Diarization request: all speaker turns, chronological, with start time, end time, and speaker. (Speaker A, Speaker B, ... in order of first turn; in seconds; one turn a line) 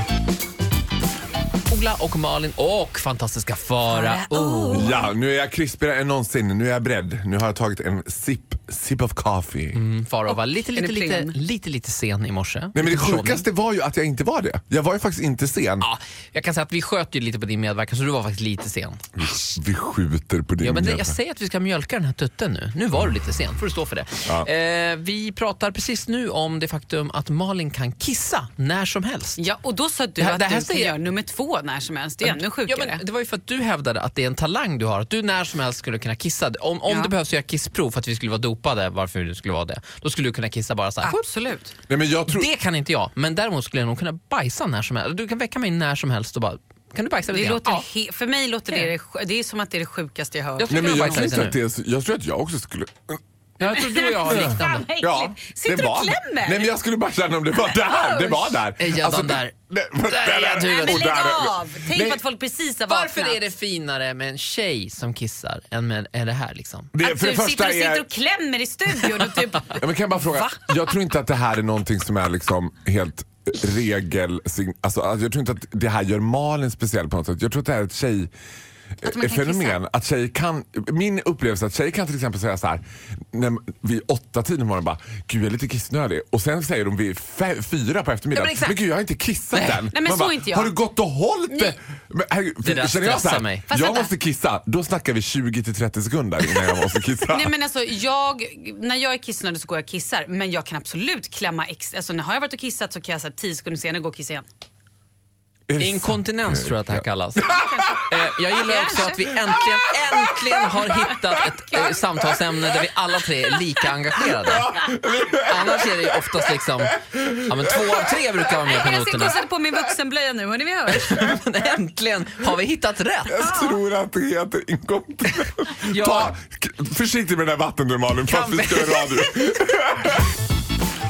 Speaker A: 1.7-4.9
Speaker B: 3.9-5.0
Speaker C: 4.7-9.8
Speaker A: 9.7-13.4
Speaker B: 10.8-11.3
Speaker C: 12.7-15.8
Speaker A: 15.8-19.0
Speaker C: 19.1-21.1
Speaker A: 20.6-29.4
Speaker B: 29.4-33.0
Speaker A: 30.2-31.0
Speaker A: 32.2-41.2
Speaker B: 36.9-37.1
Speaker B: 41.0-41.7
Speaker C: 41.9-42.5
Speaker A: 42.3-47.8
Speaker B: 47.3-51.3
Speaker A: 50.6-51.5
Speaker C: 50.7-53.2
Speaker A: 53.6-54.8
Speaker B: 53.7-56.7
Speaker C: 54.2-62.2
Speaker B: 57.6-58.6
Speaker A: 58.8-59.5
Speaker B: 60.1-63.4
Speaker A: 60.2-61.1
Speaker A: 62.9-66.9
Speaker C: 66.9-68.0
Speaker B: 67.0-70.8
Speaker C: 69.7-78.3
Speaker C: 79.0-97.5
Speaker B: 79.0-79.8
Speaker B: 88.3-88.8
Speaker A: 89.5-89.8
Speaker B: 89.9-90.7
Speaker B: 91.5-91.8
Speaker A: 92.6-93.7
Speaker B: 93.7-94.1
Speaker B: 97.3-104.5
Speaker C: 105.7-108.2
Speaker A: 105.8-114.7
Speaker B: 108.6-109.3
Speaker C: 109.5-111.4
Speaker C: 114.2-118.3
Speaker A: 115.4-119.4
Speaker B: 118.6-121.4
Speaker A: 120.9-123.5
Speaker C: 123.3-130.3
Speaker B: 123.4-123.8
Speaker A: 125.8-126.3
Speaker A: 128.3-129.1